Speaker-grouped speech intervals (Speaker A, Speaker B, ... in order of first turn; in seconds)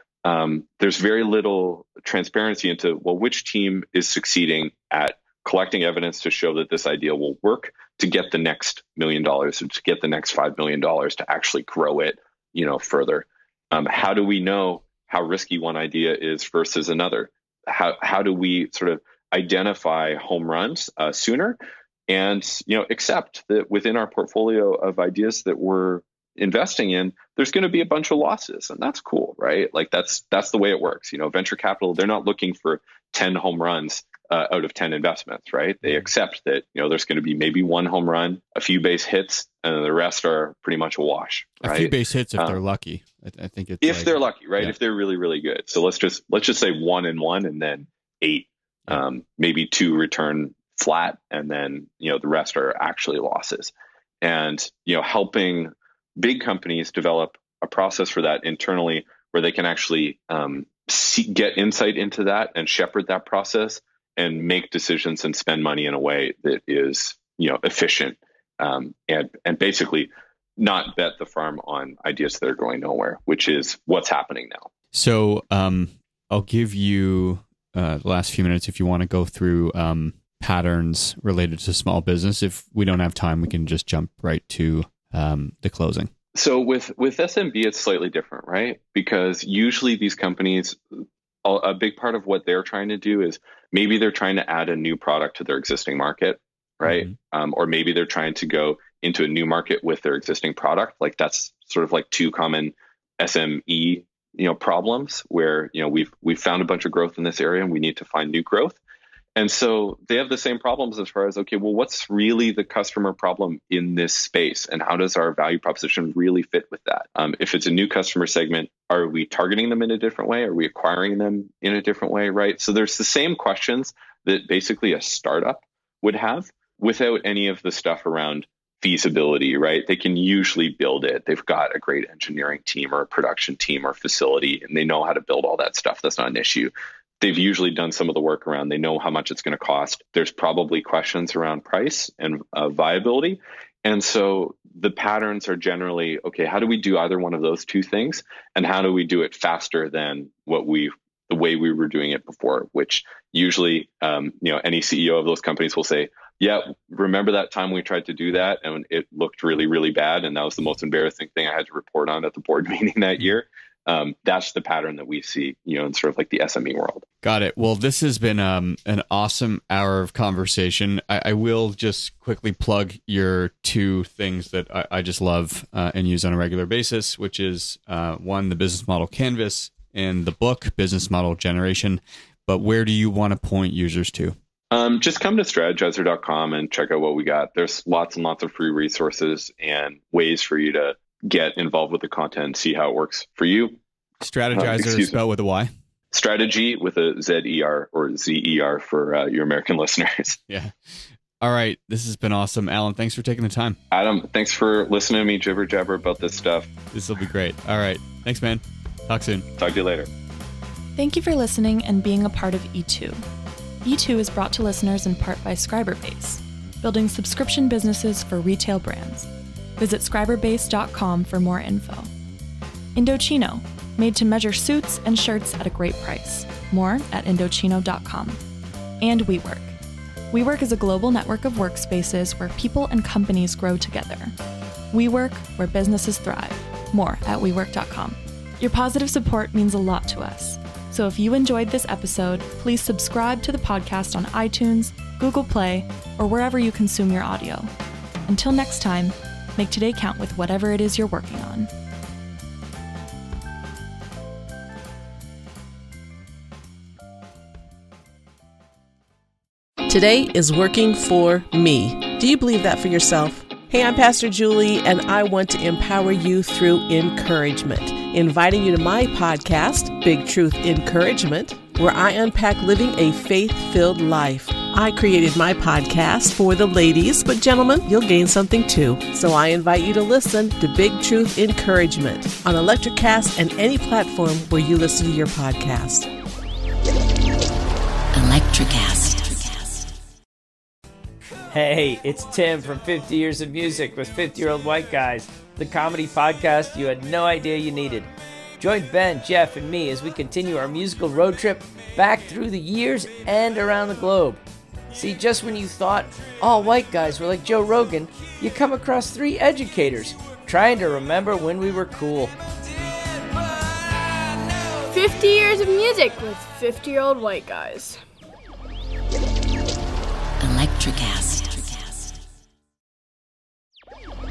Speaker A: 0.2-42.6, 43.8-74.7, 86.3-108.8, 109.4-167.1, 184.7-193.8, 194.5-195.2, 196.1-200.4, 203.9-206.7, 209.6-210.1
Speaker B: 41.6-44.7, 74.9-86.1, 96.8-97.1, 167.2-184.4, 194.2-195.7, 200.5-200.7, 201.4-203.8, 206.9-209.5
Speaker C: 211.0-213.2, 213.8-222.1, 222.9-228.4, 229.0-229.8, 230.3-234.3, 234.9-247.7, 248.3-251.7
Speaker D: 259.9-286.1
Speaker E: 288.1-289.9, 320.4-322.1
Speaker F: 291.5-304.4, 304.9-312.3
Speaker G: 314.9-318.0